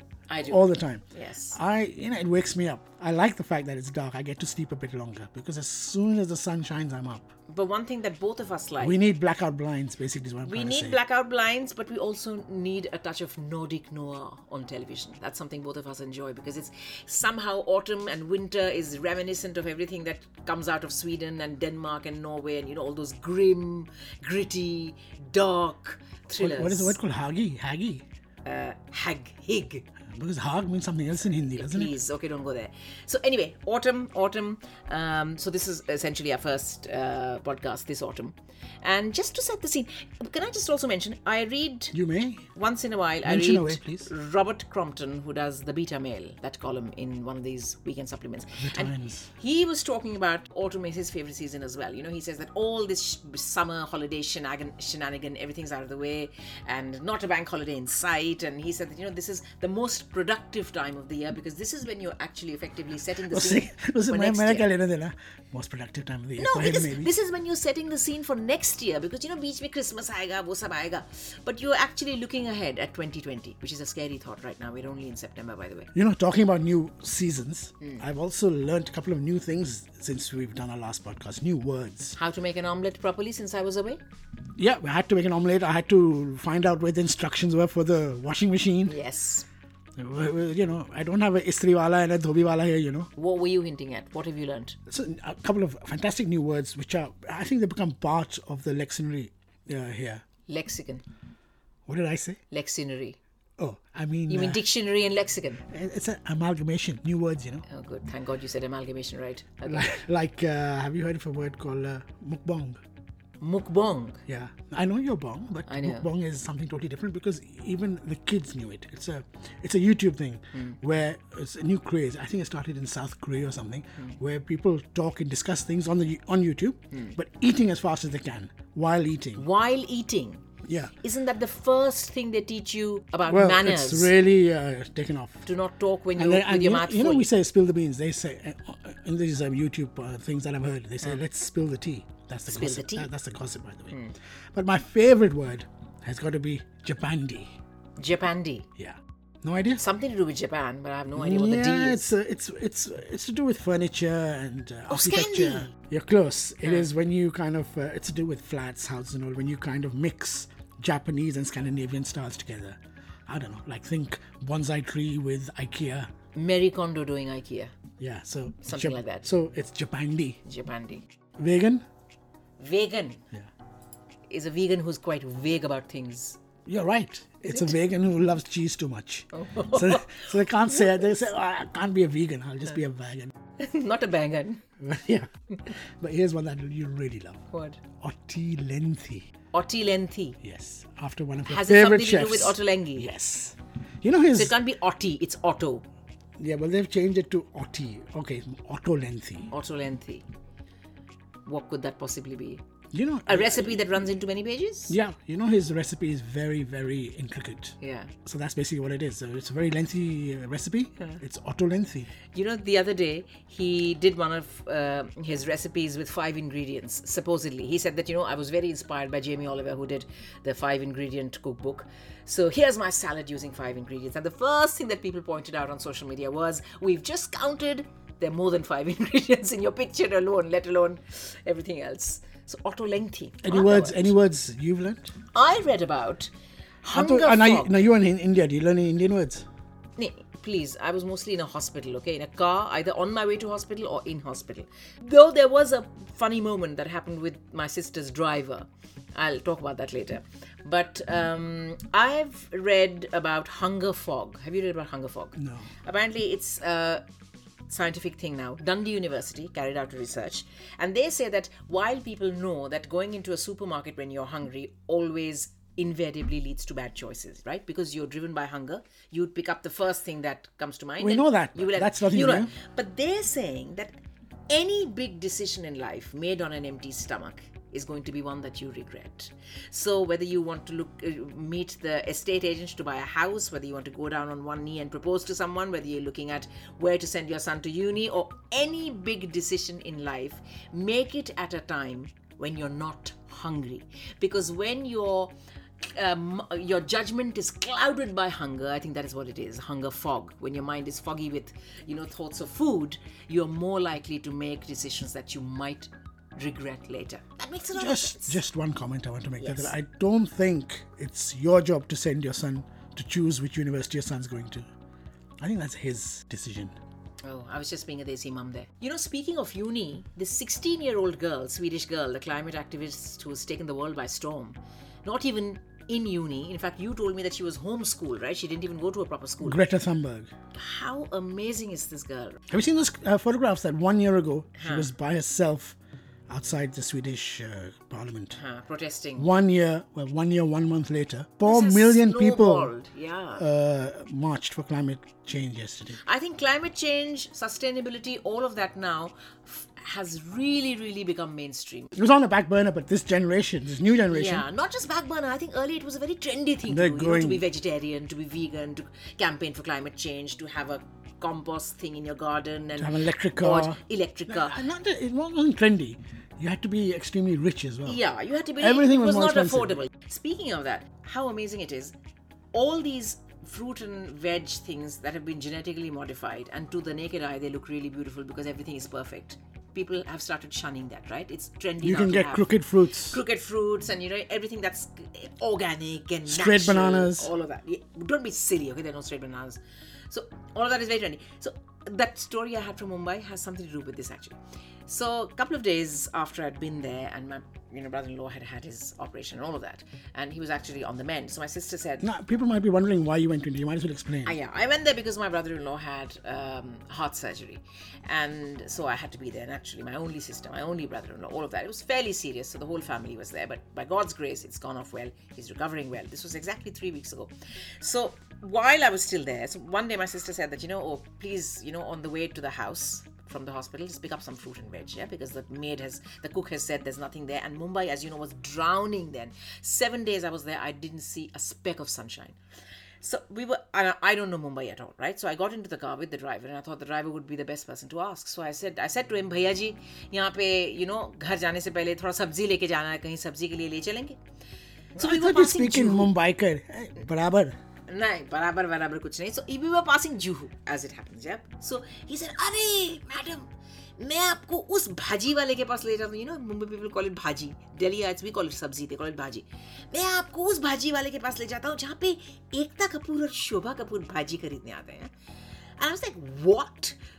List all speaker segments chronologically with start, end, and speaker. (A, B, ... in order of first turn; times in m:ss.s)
0:00.3-0:01.6 A
0:00.4-0:07.3 B
0:07.5-0:09.0 A
0:08.8-0:11.0 B
0:10.4-0:27.0 A
0:26.3-0:28.0 B
0:28.4-0:29.9 A
0:30.1-0:32.0 B
0:31.4-0:42.0 A
0:41.9-0:42.5 B
0:42.6-1:04.7 A
0:43.2-0:44.1 B
0:48.6-0:49.3 B
1:03.3-1:07.1 B
1:06.4-1:15.9 A
1:15.9-1:22.2 B
1:22.2-1:24.0 A
1:24.6-1:29.0 B
1:28.9-1:29.5 A
1:30.0-1:33.1 B
1:33.2-1:34.8 A
1:34.9-1:40.2 B
1:40.5-1:41.0 A
1:41.9-1:42.4 B
1:42.5-1:43.2 A
1:43.6-1:44.6 B
1:44.3-1:45.6 A
1:45.7-1:47.6 B
1:47.7-1:49.9 A
1:49.6-1:52.8 B
1:53.4-1:54.2 A
1:54.3-2:09.4 B
1:55.7-1:56.1 A
2:00.5-2:00.8 A
2:09.4-2:10.4 A
2:10.6-2:10.9 B
2:11.0-2:14.1 A
2:13.3-2:15.5 B
2:15.4-2:17.3 A
2:16.2-2:24.0 B
2:22.5-2:23.1 A
2:23.9-2:24.2 A
2:24.5-2:27.5 B
2:28.0-2:28.7 A
2:28.8-2:29.8 B
2:29.8-2:32.1 A
2:31.2-2:46.1 B
2:34.9-2:35.7 A
2:36.6-2:36.9 A
2:46.4-2:47.7 A
2:48.0-2:50.4 B
2:48.6-2:49.3 A
2:50.4-2:51.1 A
2:51.4-2:51.8 B
2:52.6-2:53.3 A
2:54.3-2:56.4 A
2:56.7-3:03.3 B
2:57.5-2:57.8 A
2:59.3-3:01.1 A
3:03.6-3:04.6 A
3:04.8-3:05.3 B
3:06.0-3:07.4 B
3:07.5-3:07.8 A
3:08.0-3:09.3 B
3:09.5-3:10.4 A
3:10.4-3:14.6 B
3:11.5-3:13.1 A
3:14.3-3:15.8 A
3:16.4-3:19.5 B
3:19.5-3:20.3 A
3:21.5-3:22.6 A
3:22.9-3:23.8 B
3:23.3-3:25.0 A
3:24.9-3:32.1 B
3:27.8-3:28.1 A
3:32.3-3:54.1 A
3:53.4-3:55.1 B
3:55.3-3:56.3 A
3:56.8-3:57.8 A
3:56.9-3:59.5 B
4:00.0-4:17.0 A
4:15.4-4:15.7 B
4:17.7-4:33.9 A
4:31.0-4:32.5 B
4:34.5-5:08.4 A
5:07.7-5:14.7 B
5:09.4-5:09.7 A
5:15.4-5:16.8 B
5:17.2-5:29.6 A
5:29.4-5:30.3 B
5:30.6-5:32.4 A
5:32.5-5:35.8 B
5:34.6-5:34.9 A
5:36.3-5:38.4 B
5:38.3-5:39.3 A
5:39.2-5:42.7 B
5:41.4-5:43.4 A
5:43.4-5:46.0 B
5:46.0-5:51.9 A
5:52.0-5:54.5 B
5:54.1-6:04.6 A
5:56.7-5:57.5 B
6:02.8-6:08.0 B
6:07.8-6:12.0 A
6:08.6-6:09.8 B
6:12.5-6:42.1 A
6:21.8-6:23.2 B
6:26.3-6:27.3 B
6:42.0-6:44.4 B
6:44.2-7:12.4 A
7:13.0-7:24.2 A
7:25.0-7:26.2 A
7:25.0-7:27.6 B
7:27.9-7:45.1 A
7:45.8-7:47.0 A